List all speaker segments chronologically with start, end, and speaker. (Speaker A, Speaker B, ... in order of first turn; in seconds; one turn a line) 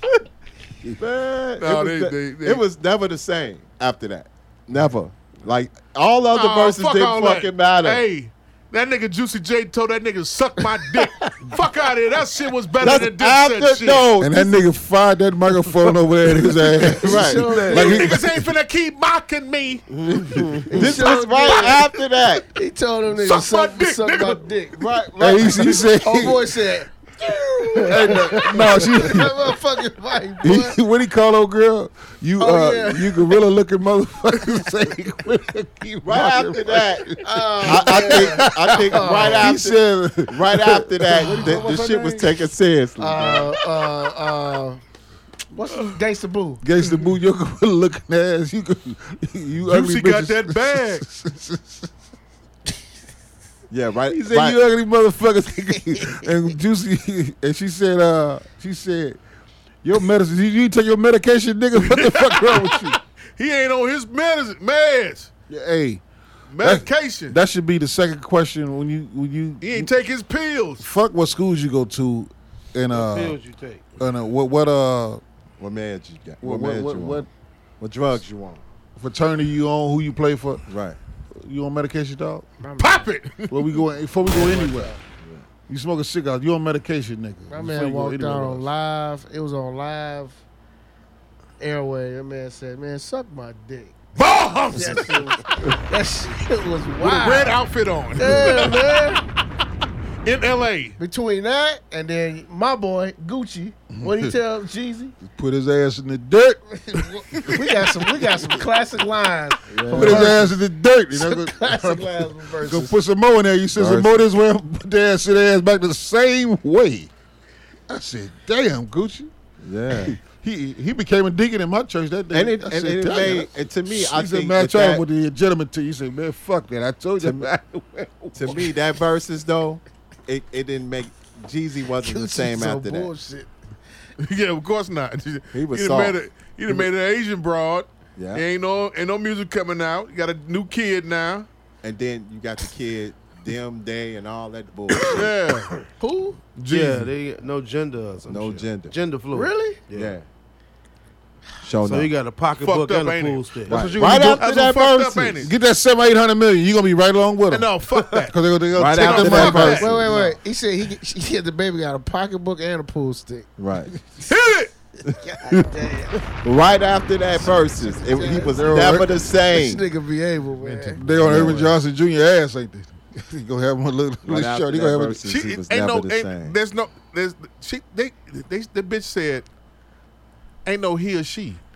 Speaker A: 0.8-8.0
Speaker B: 1.6-2.6
Speaker B: 6.3-14.1
Speaker A: 10.9-11.5
Speaker A: 12.8-14.6
Speaker C: 14.2-18.5
Speaker A: 16.8-17.8
Speaker D: 16.8-18.1
Speaker B: 17.7-20.4
Speaker E: 19.9-20.7
Speaker D: 20.7-21.9
Speaker A: 20.7-22.5
Speaker D: 22.5-24.9
Speaker B: 23.1-24.6
Speaker A: 24.8-25.9
Speaker C: 25.2-26.5
Speaker D: 25.7-30.8
Speaker C: 27.8-29.4
Speaker C: 30.4-42.4
Speaker D: 32.4-33.3
Speaker A: 36.0-43.6
Speaker D: 37.2-39.8
Speaker D: 41.3-41.8
Speaker D: 43.0-44.8
Speaker D: 45.5-46.6
Speaker B: 45.7-46.0
Speaker C: 46.6-51.9
Speaker B: 49.7-51.0
Speaker A: 53.7-54.6
Speaker C: 54.1-59.2
Speaker C: 59.8-63.0
Speaker B: 61.8-65.3
Speaker C: 65.5-66.0
Speaker B: 66.5-67.4
Speaker C: 66.6-69.9
Speaker B: 69.6-70.9
Speaker C: 70.8-73.4
Speaker E: 72.9-73.8
Speaker C: 74.0-75.2
Speaker A: 75.6-77.2
Speaker C: 76.4-77.3
Speaker A: 77.8-78.6
Speaker C: 79.0-80.6
Speaker A: 80.7-81.0
Speaker C: 81.3-82.5
Speaker D: 82.6-83.1
Speaker B: 82.8-83.8
Speaker C: 83.5-85.0
Speaker D: 84.2-85.0
Speaker A: 85.2-85.5
Speaker C: 85.7-88.7
Speaker D: 87.5-90.4
Speaker D: 91.6-94.0
Speaker B: 94.2-95.5
Speaker D: 94.7-97.6
Speaker B: 97.0-99.1
Speaker D: 98.2-99.2
Speaker B: 100.2-101.0
Speaker D: 101.0-105.2
Speaker C: 104.0-104.3
Speaker C: 105.2-107.8
Speaker D: 107.5-110.6
Speaker A: 109.7-110.4
Speaker C: 109.9-117.1
Speaker D: 111.1-113.0
Speaker A: 113.8-114.2
Speaker C: 117.9-119.3
Speaker A: 119.6-120.2
Speaker C: 119.9-128.7
Speaker A: 122.3-125.0
Speaker A: 127.2-127.5
Speaker A: 128.3-133.1
Speaker D: 132.0-133.5
Speaker B: 134.2-141.5
Speaker A: 135.5-136.2
Speaker A: 138.2-138.4
Speaker A: 141.8-145.3
Speaker B: 145.0-145.8
Speaker D: 146.0-146.4
Speaker B: 146.6-147.1
Speaker E: 146.7-150.2
Speaker A: 148.3-149.0
Speaker D: 149.3-149.8
Speaker A: 149.9-150.2
Speaker A: 151.6-152.1
Speaker E: 151.8-153.9
Speaker B: 152.6-155.5
Speaker A: 153.7-155.5
Speaker C: 153.9-154.4
Speaker C: 155.4-160.1
Speaker B: 157.5-158.4
Speaker A: 158.8-160.3
Speaker B: 158.9-160.2
Speaker D: 159.7-163.5
Speaker A: 163.6-164.0
Speaker B: 164.3-164.7
Speaker A: 165.1-165.7
Speaker D: 165.2-166.2
Speaker A: 166.4-169.9
Speaker D: 167.4-171.0
Speaker C: 168.2-169.2
Speaker B: 170.6-171.6
Speaker C: 171.0-175.2
Speaker A: 171.0-171.8
Speaker A: 174.2-176.6
Speaker B: 175.2-179.5
Speaker B: 180.7-181.6